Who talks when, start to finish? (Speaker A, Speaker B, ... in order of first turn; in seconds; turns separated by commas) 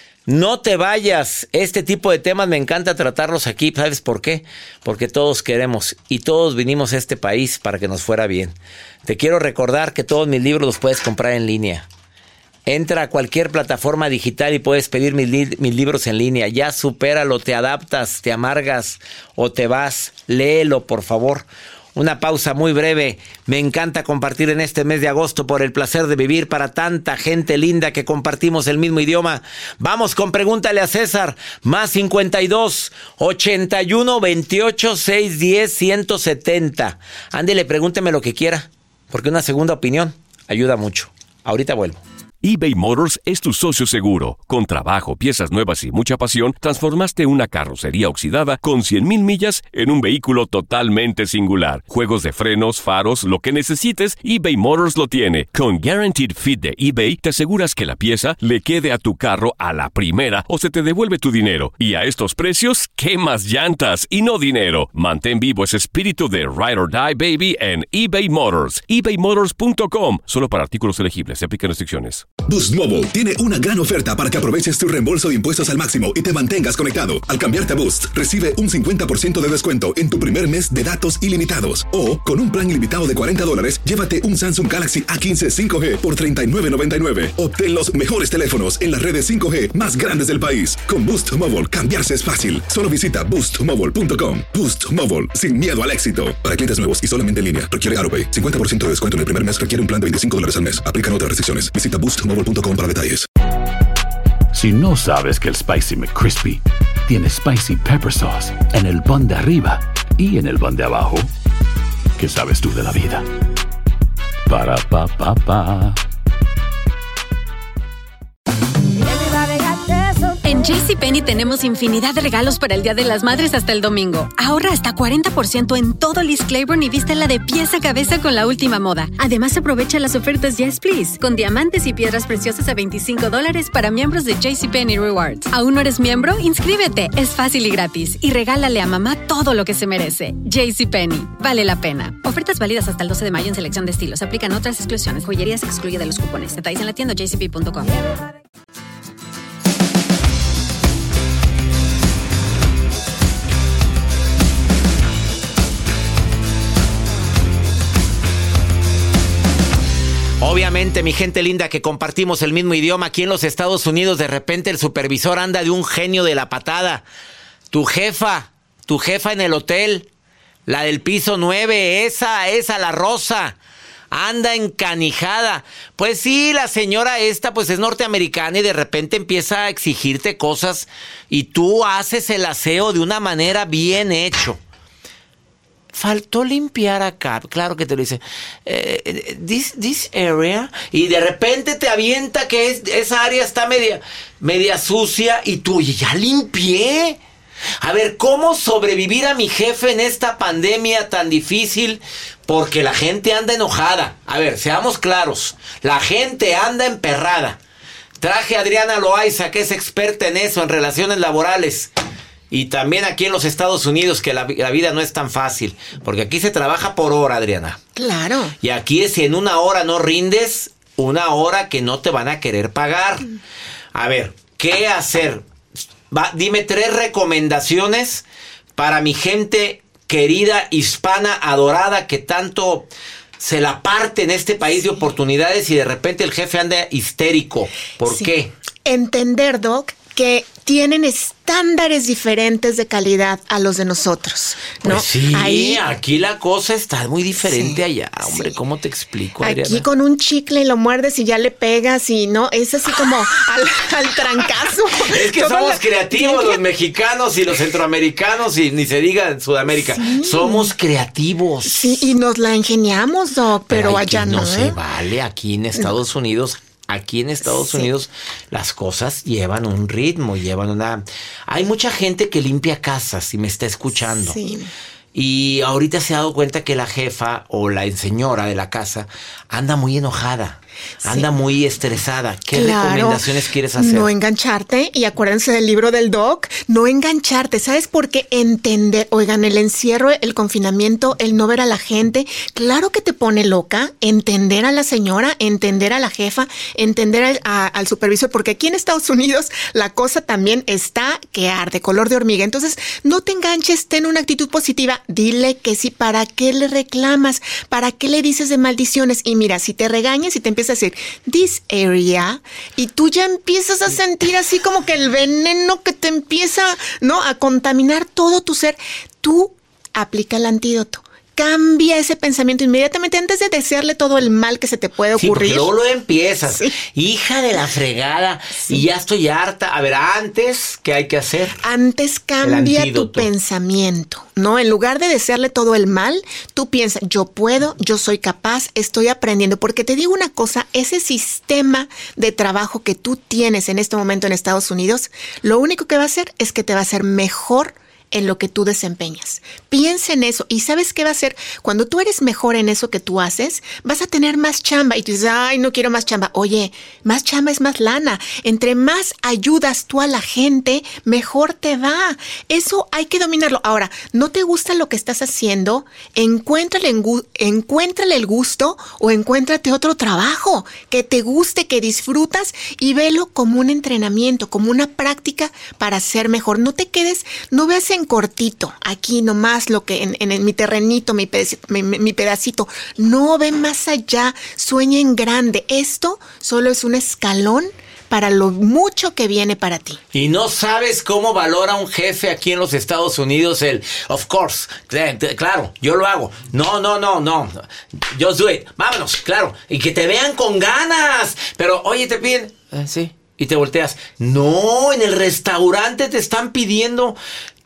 Speaker A: 0.3-11.9, Speaker A: 12.7-42.0, Speaker B: 42.4-72.3, Speaker C: 72.5-103.3, Speaker D: 104.5-111.3, Speaker D: 112.2-113.2, Speaker D: 114.5-116.0, Speaker E: 120.4-148.0, Speaker A: 160.4-167.1, Speaker A: 167.7-170.1, Speaker A: 170.7-173.6, Speaker A: 174.1-184.6, Speaker A: 185.9-197.2, Speaker A: 197.8-207.6, Speaker A: 208.2-211.9, Speaker A: 212.5-217.8, Speaker F: 218.0-218.6, Speaker A: 218.6-223.3, Speaker A: 223.9-225.4, Speaker A: 226.1-228.2, Speaker A: 228.8-232.9, Speaker A: 233.4-238.5, Speaker F: 238.9-245.8, Speaker A: 244.8-249.8, Speaker F: 247.4-248.6, Speaker F: 249.4-256.6, Speaker A: 255.0-262.1, Speaker F: 259.7-260.7, Speaker F: 261.6-264.8, Speaker A: 263.7-274.4, Speaker F: 267.4-267.9, Speaker F: 274.1-274.7, Speaker A: 275.1-284.1, Speaker F: 281.0-281.3, Speaker F: 282.5-283.3, Speaker F: 283.8-325.7, Speaker A: 325.2-331.6, Speaker F: 326.5-326.7, Speaker F: 331.6-390.0, Speaker A: 332.4-333.3, Speaker A: 390.1-407.2